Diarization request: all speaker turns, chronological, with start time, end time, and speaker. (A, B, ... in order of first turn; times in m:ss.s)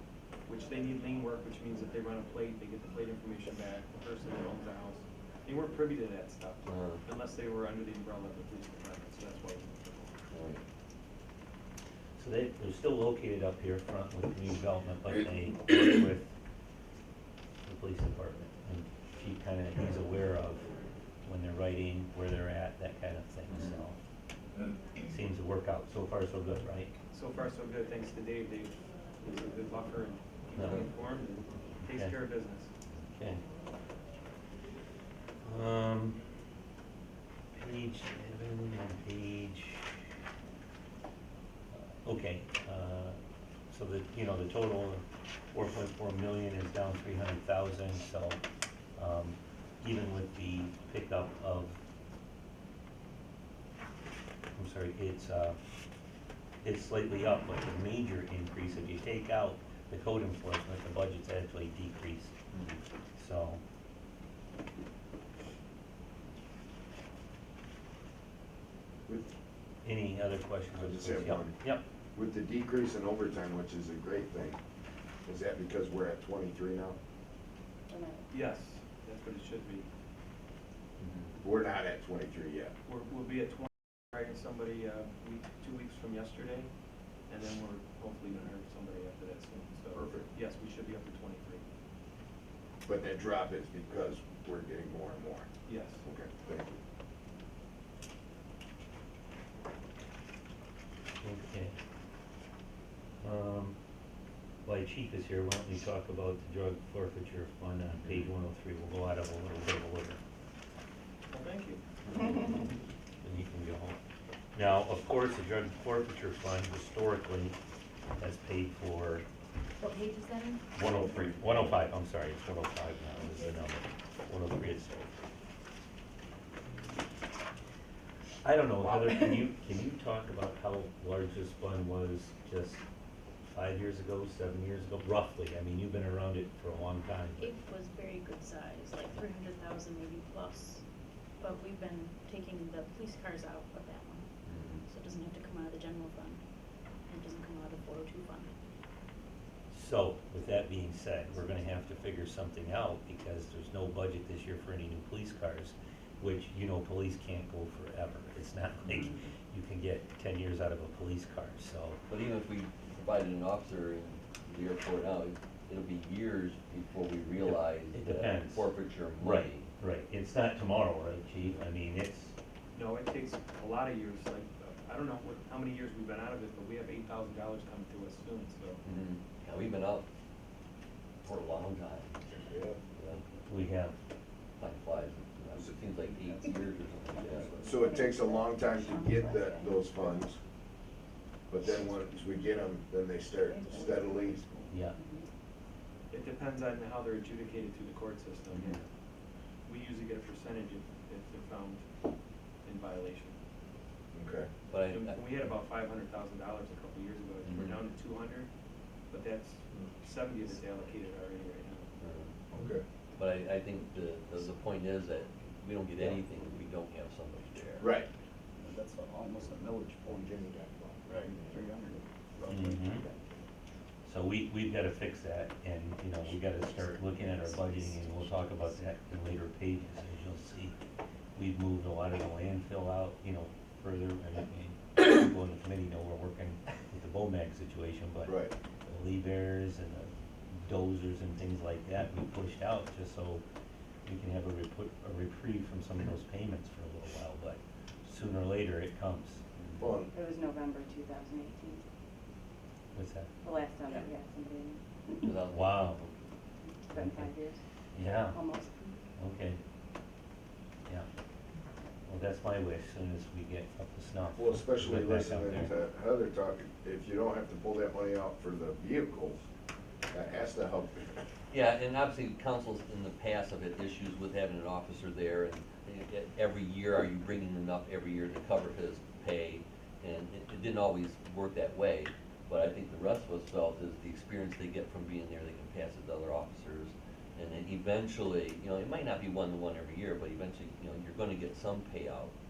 0:00.5-0:10.2 A
0:06.7-0:07.0 B
0:10.3-0:10.6 B
0:12.2-0:16.3 C
0:17.6-0:20.7 C
0:21.2-0:24.0 C
0:23.5-0:23.8 B
0:25.1-0:27.0 C
0:27.1-0:32.7 A
0:30.6-0:30.9 C
0:31.8-0:32.2 C
0:33.2-0:33.4 C
0:35.4-0:36.2 C
0:37.5-0:40.0 C
0:41.7-0:43.2 C
0:43.7-0:48.4 C
0:49.0-0:51.8 C
0:54.6-0:55.6 C
0:56.6-1:02.3 C
1:02.5-1:02.8 B
1:03.2-1:03.6 C
1:09.1-1:09.3 D
1:09.8-1:11.8 C
1:10.7-1:11.6 D
1:12.2-1:14.6 D
1:15.3-1:17.0 D
1:17.9-1:18.3 E
1:18.3-1:19.9 A
1:21.0-1:21.3 B
1:21.4-1:22.7 D
1:22.9-1:26.7 A
1:27.3-1:31.6 A
1:29.9-1:30.3 D
1:32.9-1:35.5 D
1:35.7-1:36.0 A
1:36.0-1:36.8 D
1:41.2-1:41.8 C
1:43.2-1:43.8 C
1:44.6-1:50.2 C
1:47.9-1:48.3 B
1:51.3-1:51.8 A
1:52.1-1:52.4 B
1:53.2-1:54.0 C
1:54.6-1:57.6 C
1:58.2-1:59.3 C
1:59.8-2:00.7 F
2:00.7-2:05.1 C
2:00.9-2:01.8 G
2:08.4-2:12.8 C
2:13.5-2:17.6 C
2:17.4-2:20.8 F
2:21.4-2:28.5 F
2:24.4-2:24.8 B
2:29.7-2:42.0 C
2:42.1-2:49.7 B
2:47.4-2:52.3 C
2:52.7-2:58.8 A
2:58.8-3:00.1 B
3:01.2-3:02.2 B
3:02.3-3:02.8 D
3:03.0-3:03.3 B
3:03.5-3:04.0 C
3:04.6-3:07.6 B
3:06.1-3:07.7 G
3:07.5-3:10.4 D
3:07.6-3:09.9 E
3:11.5-3:14.4 D
3:13.6-3:13.9 E
3:13.6-3:14.7 G
3:14.7-3:15.0 C
3:14.9-3:15.3 E
3:16.1-3:18.8 A
3:18.5-3:18.8 B
3:19.6-3:21.9 A
3:22.6-3:23.4 A
3:24.1-3:24.5 D
3:24.7-3:25.4 B
3:24.9-3:28.5 A
3:27.4-3:27.8 B
3:29.1-3:31.9 A
3:32.0-3:32.3 B
3:32.6-3:32.8 D
3:33.2-3:37.9 B
3:37.8-3:38.1 D
3:38.6-3:40.5 G
3:40.0-3:41.7 D
3:41.1-3:43.4 G
3:42.5-3:43.1 C
3:44.1-3:50.8 C
3:51.4-4:03.4 C
3:58.3-3:58.5 D
4:04.1-4:09.4 C
4:09.6-4:09.9 B
4:09.8-4:10.1 D
4:10.1-4:11.8 E
4:12.9-4:13.3 C
4:13.4-4:15.3 E
4:15.2-4:16.1 B
4:15.5-4:16.0 C
4:16.6-4:17.6 E
4:16.9-4:17.3 C
4:17.9-4:18.5 C
4:18.3-4:19.0 E
4:19.2-4:19.6 C
4:22.1-4:25.7 C
4:24.4-4:29.4 D
4:30.1-4:31.2 D
4:31.5-4:52.3 B